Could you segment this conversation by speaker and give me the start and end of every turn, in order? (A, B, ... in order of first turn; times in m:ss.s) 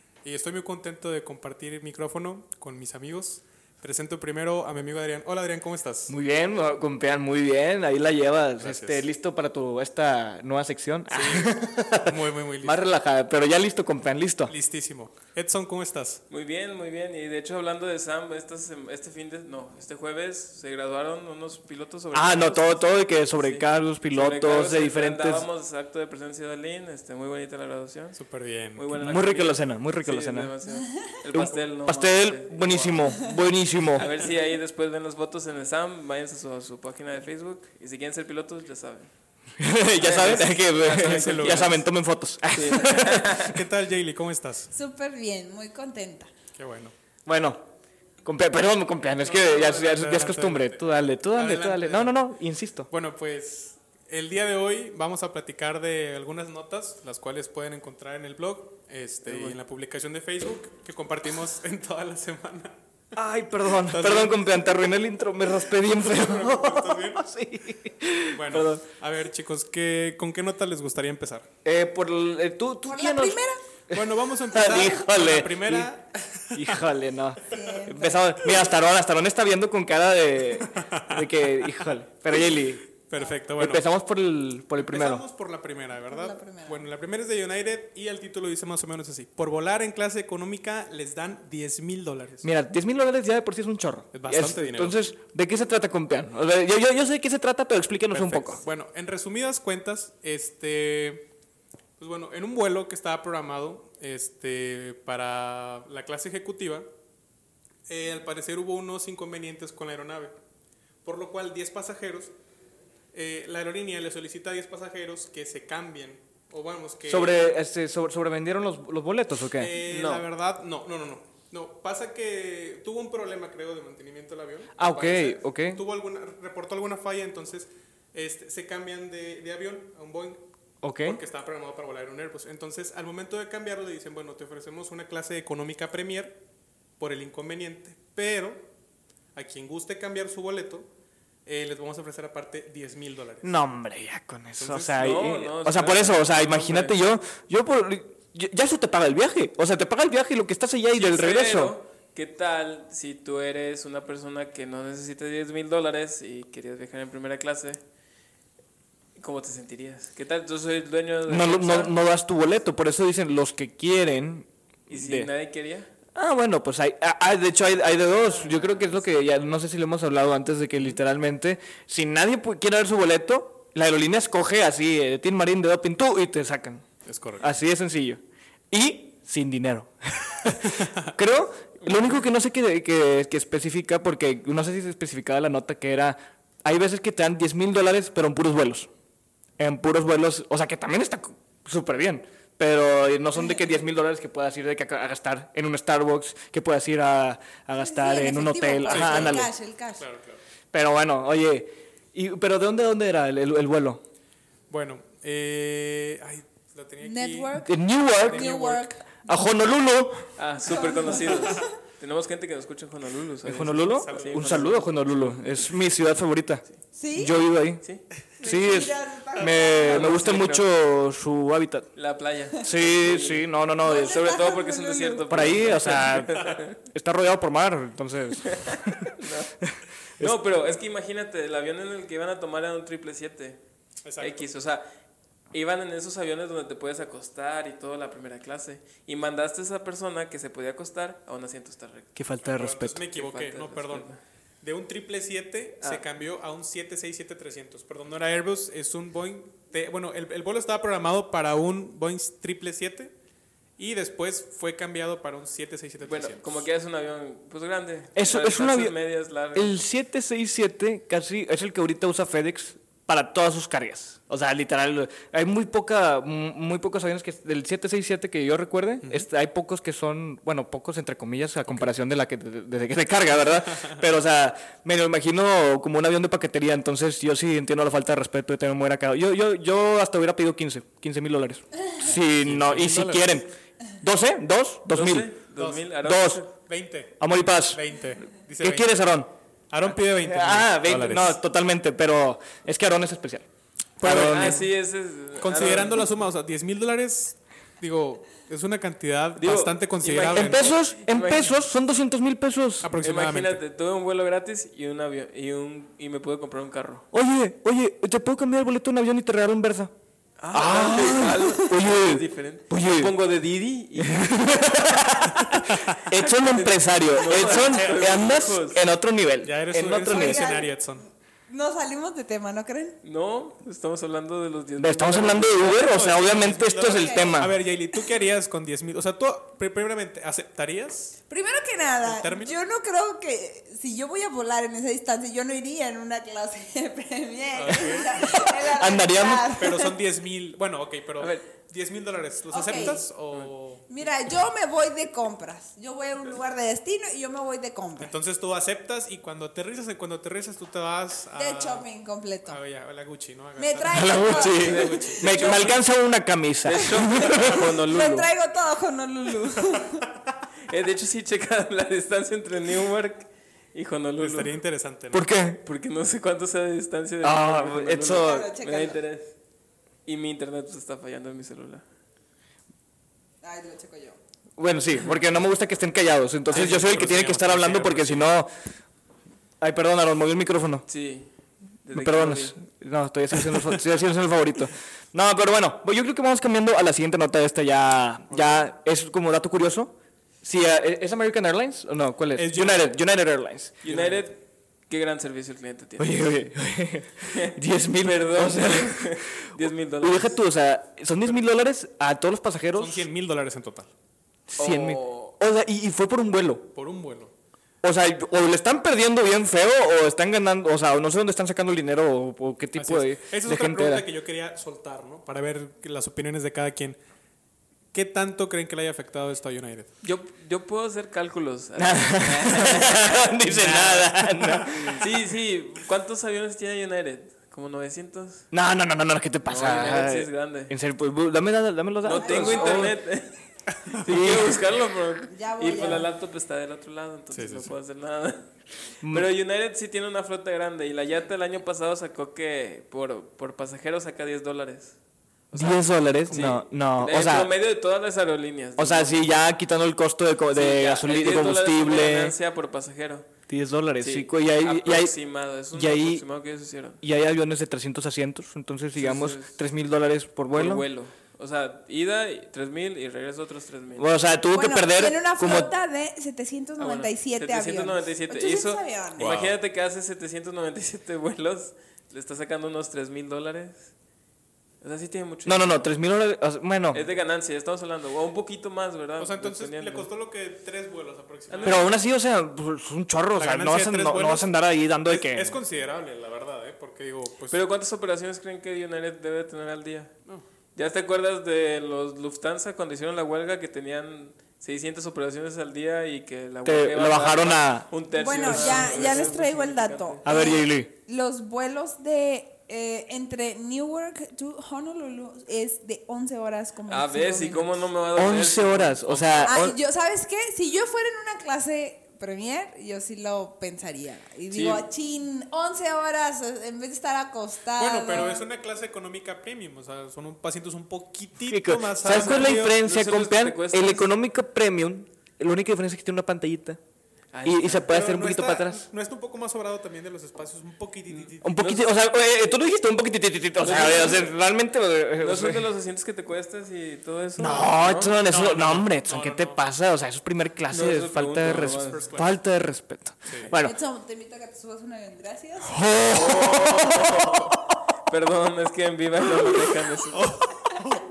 0:00.2-0:06.1 A
0:06.1-0:14.5 B
0:08.6-0:09.0 A
0:11.1-0:12.8 A
0:14.5-0:16.2 A
0:16.3-0:28.2 C
0:22.1-0:25.4 B
0:28.2-0:28.9 A
0:28.7-0:39.1 C
0:28.9-0:30.5 B
0:31.3-0:34.1 B
0:39.6-0:43.4 B
0:40.0-0:41.8 C
0:40.2-0:41.9 A
0:42.5-0:43.6 C
0:43.3-0:44.7 A
0:44.7-0:46.3 D
0:46.5-0:46.9 A
0:47.2-0:47.6 B
0:48.2-0:52.9 B
0:49.2-0:52.2 A
0:52.9-1:02.8 A
0:59.2-0:59.6 C
1:03.1-1:08.8 B
1:03.8-1:04.6 A
1:05.8-1:07.2 A
1:08.3-1:11.5 A
1:11.6-1:15.9 B
1:12.9-1:13.6 D
1:13.9-1:16.7 A
1:16.5-1:22.8 B
1:17.5-1:18.2 D
1:20.6-1:21.7 A
1:23.0-1:23.8 A
1:23.6-1:25.2 B
1:24.8-1:32.5 A
1:26.0-1:26.8 D
1:32.4-1:38.6 B
1:34.1-1:35.0 A
1:38.1-1:38.5 C
1:38.5-1:41.3 A
1:42.0-1:46.9 A
1:47.9-1:50.4 A
1:51.0-1:52.3 A
1:53.1-1:57.4 A
1:57.0-1:59.7 B
1:59.6-2:10.4 A
1:59.8-2:00.2 C
2:04.8-2:05.8 B
2:10.8-2:11.2 B
2:11.0-2:16.4 A
2:17.0-2:18.6 A
2:19.3-2:20.9 A
2:21.4-2:23.7 A
2:23.4-2:31.8 B
2:24.6-2:25.1 A
2:24.9-2:27.1 C
2:30.9-2:37.8 C
2:39.2-2:41.9 C
2:41.3-2:45.3 B
2:44.9-2:45.9 C
2:46.1-2:56.8 B
2:48.3-2:49.0 C
2:57.0-2:57.5 A
2:57.4-3:08.9 B
3:00.6-3:01.1 A
3:01.8-3:02.2 C
3:09.6-3:19.5 B
3:17.8-3:20.0 D
3:18.9-3:20.4 A
3:20.7-3:24.0 B
3:24.7-3:27.5 A
3:27.0-3:29.1 D
3:27.6-3:30.3 B
3:28.2-3:28.8 A
3:30.4-3:35.0 C
3:30.7-3:31.7 D
3:33.4-3:36.6 B
3:33.6-3:34.9 A
3:36.9-3:37.4 D
3:37.1-3:37.8 B
3:38.4-3:40.2 D
3:38.4-3:41.9 B
3:39.8-3:40.6 C
3:41.9-3:46.8 C
3:42.6-3:44.3 B
3:43.8-3:46.0 D
3:45.3-3:48.9 B
3:48.4-3:49.5 C
3:49.6-3:50.4 B
3:50.2-3:53.6 C
3:54.0-3:54.5 A
3:54.2-3:54.8 C
3:55.5-4:02.1 C
4:02.2-4:03.0 B
4:02.4-4:04.1 A
4:03.1-4:04.2 C
4:04.6-4:13.1 A
4:13.8-4:16.7 A
4:16.0-4:19.8 C
4:18.1-4:19.0 B
4:19.5-4:45.3 B
4:42.4-4:43.3 A
4:44.9-4:46.4 C
4:45.6-4:45.9 A
4:46.0-4:46.4 B
4:46.5-4:47.2 A
4:47.2-4:47.8 B
4:47.7-4:48.9 A
4:48.6-4:49.3 B
4:49.7-4:51.4 A
4:50.2-4:53.4 B
4:54.0-4:54.6 B
4:54.0-4:54.7 A
4:54.0-4:56.1 C
4:55.4-5:00.6 A
4:59.4-5:01.6 C
5:00.3-5:02.9 B
5:02.8-5:03.6 A
5:03.0-5:07.0 C
5:07.1-5:09.9 B
5:10.4-5:14.9 C
5:10.5-5:13.1 B
5:14.0-5:20.5 B
5:16.1-5:18.8 C
5:17.2-5:18.4 A
5:19.4-5:21.0 A
5:20.0-5:23.0 D
5:23.0-5:26.0 C
5:24.8-5:27.6 B
5:25.6-5:31.2 A
5:26.9-5:27.3 D
5:31.3-5:40.0 D
5:32.0-5:32.6 A
5:37.5-5:38.4 A
5:38.2-5:39.6 B
5:39.5-5:43.9 A
5:41.2-5:41.4 C
5:42.5-5:43.1 D
5:43.9-5:48.1 D
5:48.0-5:51.8 A
5:51.3-5:52.6 D
5:52.4-5:55.6 A
5:53.6-5:55.6 D
5:53.9-5:57.7 B
5:54.5-5:55.8 C
5:56.6-5:58.3 C
5:56.8-6:00.0 D
6:00.7-6:04.6 C
6:04.2-6:05.3 A
6:05.1-6:05.6 B
6:05.6-6:09.3 C
6:07.2-6:08.5 B
6:08.1-6:09.0 D
6:10.0-6:11.8 C
6:13.4-6:14.2 D
6:14.6-6:18.5 B
6:16.5-6:18.3 A
6:16.5-6:17.1 C
6:19.6-6:20.8 B
6:20.9-6:21.3 C
6:21.8-6:22.6 C
6:21.9-6:33.8 B
6:28.3-6:28.6 A
6:32.3-6:32.9 A
6:33.8-6:36.4 C
6:33.8-6:34.3 A
6:36.0-6:39.2 B
6:37.3-6:40.4 C
6:40.0-6:43.1 B
6:42.8-6:43.9 A
6:44.5-6:46.7 B
6:44.6-6:45.3 C
6:46.7-6:47.3 A
6:47.8-6:54.0 B
6:52.8-6:57.0 A
6:57.9-6:59.9 A
7:00.0-7:04.1 C
7:01.8-7:05.1 B
7:04.9-7:08.4 C
7:08.5-7:13.0 B
7:09.4-7:10.7 C
7:12.0-7:13.3 C
7:12.1-7:12.9 D
7:13.9-7:18.5 C
7:14.0-7:14.6 B
7:15.3-7:16.1 D
7:17.3-7:17.7 A
7:19.0-7:19.3 B
7:19.1-7:24.9 C
7:25.5-7:29.3 C
7:25.5-7:27.5 B
7:26.3-7:26.6 A
7:28.8-7:32.3 B
7:30.5-7:33.3 C
7:33.5-7:35.1 B
7:34.0-7:37.0 C
7:35.7-7:36.2 B
7:37.0-7:40.8 B
7:39.0-7:39.6 C
7:40.5-7:44.1 C
7:43.9-7:45.7 B
7:44.5-7:49.3 D
7:46.8-7:53.9 C
7:49.2-7:49.6 A
7:54.8-7:55.9 C
7:55.4-7:57.0 B
7:56.9-8:00.1 C
7:59.2-8:01.9 A
8:01.5-8:01.9 C
8:01.6-8:05.6 B
8:03.4-8:04.5 A
8:05.0-8:07.6 A
8:07.5-8:10.1 C
8:10.7-8:20.5 C
8:16.6-8:19.1 B
8:18.1-8:27.8 D
8:20.2-8:20.9 B
8:26.9-8:29.6 C
8:28.1-8:29.8 B
8:29.4-8:38.4 D
8:34.5-8:34.8 C
8:37.8-8:42.8 A
8:41.5-8:46.8 B
8:42.0-8:44.1 C
8:47.3-8:47.9 C
8:47.4-8:48.8 B
8:47.8-8:51.8 A
8:51.4-8:55.7 B
8:53.6-8:54.4 C
8:55.2-8:58.2 C
8:57.4-9:03.7 B
8:58.2-8:59.6 A
9:00.7-9:02.2 C
9:01.4-9:02.4 A
9:03.6-9:05.8 D
9:05.7-9:07.6 B
9:06.1-9:07.4 C
9:08.1-9:10.3 C
9:10.1-9:10.9 A